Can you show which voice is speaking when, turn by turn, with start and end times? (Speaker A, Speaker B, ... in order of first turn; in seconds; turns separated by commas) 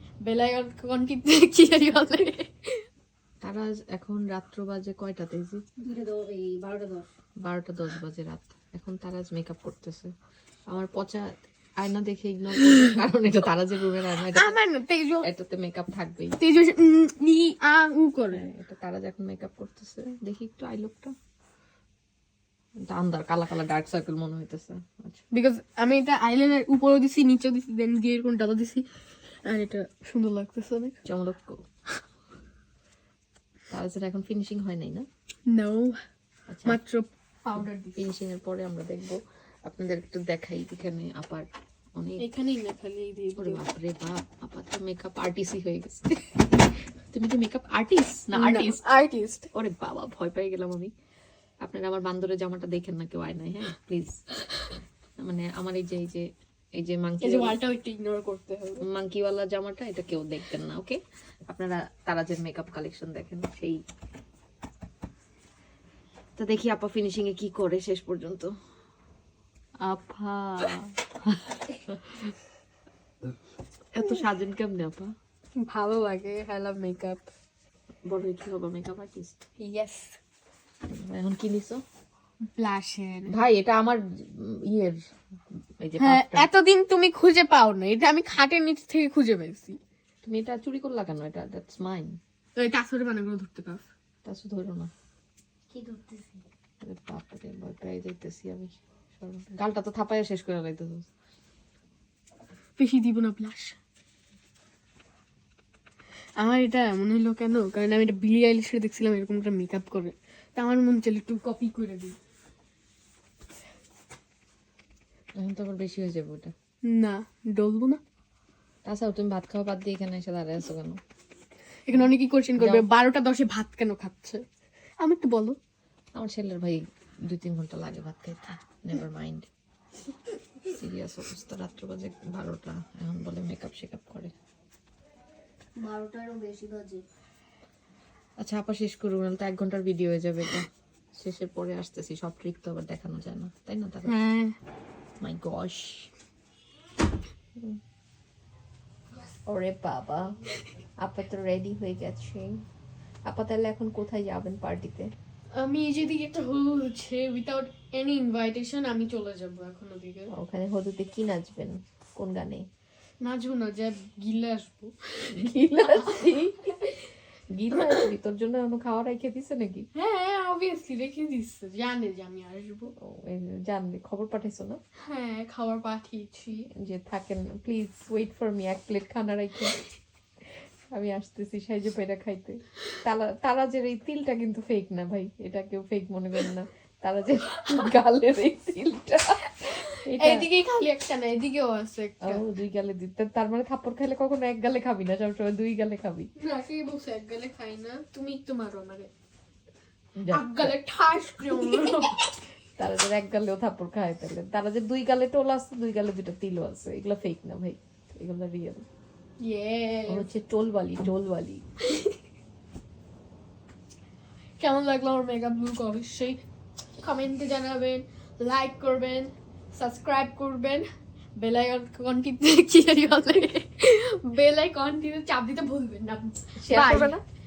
Speaker A: 0.2-2.9, Speaker B: 3.4-5.6, Speaker C: 5.8-7.1, Speaker B: 7.4-10.1, Speaker B: 10.7-14.6, Speaker A: 14.3-15.3, Speaker B: 15.2-16.4, Speaker A: 16.4-18.5, Speaker B: 18.3-21.1, Speaker B: 22.8-25.2, Speaker A: 25.3-28.9, Speaker A: 29.4-31.0, Speaker B: 31.0-31.6, Speaker B: 33.7-35.0, Speaker A: 35.5-36.0, Speaker B: 36.5-36.8, Speaker A: 36.6-38.1, Speaker B: 37.6-42.3, Speaker A: 42.2-43.6, Speaker B: 43.4-48.8, Speaker A: 48.3-49.5, Speaker B: 49.5-50.9, Speaker B: 51.6-54.2, Speaker B: 55.2-57.6, Speaker A: 57.2-58.8, Speaker B: 58.8-63.8, Speaker B: 66.4-68.5, Speaker B: 69.8-72.3, Speaker B: 73.9-75.1, Speaker A: 75.6-77.3, Speaker B: 78.1-79.4, Speaker A: 79.6-80.2, Speaker B: 80.9-81.8, Speaker A: 82.4-83.3, Speaker B: 83.3-85.0, Speaker B: 85.8-86.5, Speaker A: 86.0-89.8, Speaker B: 90.2-92.2, Speaker A: 92.6-93.9, Speaker B: 94.2-94.9, Speaker C: 95.7-96.4, Speaker B: 96.8-101.1, Speaker A: 102.8-103.8, Speaker A: 106.4-112.2, Speaker B: 115.3-116.5, Speaker A: 116.8-118.0, Speaker B: 118.8-121.0, Speaker A: 121.8-124.4, Speaker B: 121.9-122.9, Speaker A: 125.0-125.6, Speaker B: 126.2-129.5, Speaker B: 130.7-134.3, Speaker C: 135.8-137.0, Speaker B: 138.4-144.2, Speaker A: 144.1-144.6, Speaker B: 145.2-146.1, Speaker B: 149.4-150.4, Speaker B: 151.0-152.6, Speaker B: 153.3-155.1, Speaker A: 155.5-160.3, Speaker B: 160.3-162.7, Speaker A: 163.2-167.0, Speaker B: 165.2-166.9, Speaker B: 167.5-169.9, Speaker A: 169.9-172.9, Speaker B: 173.0-174.8, Speaker A: 175.0-176.7, Speaker B: 176.7-179.8, Speaker B: 180.9-190.5, Speaker A: 189.8-192.4, Speaker B: 192.2-196.3, Speaker A: 196.4-199.1, Speaker B: 200.2-200.7, Speaker A: 200.3-202.3, Speaker B: 201.4-202.0, Speaker B: 202.8-208.8, Speaker A: 209.4-210.2, Speaker B: 210.1-211.6, Speaker A: 211.9-212.1, Speaker A: 214.6-216.4, Speaker A: 217.0-227.2, Speaker B: 226.6-227.2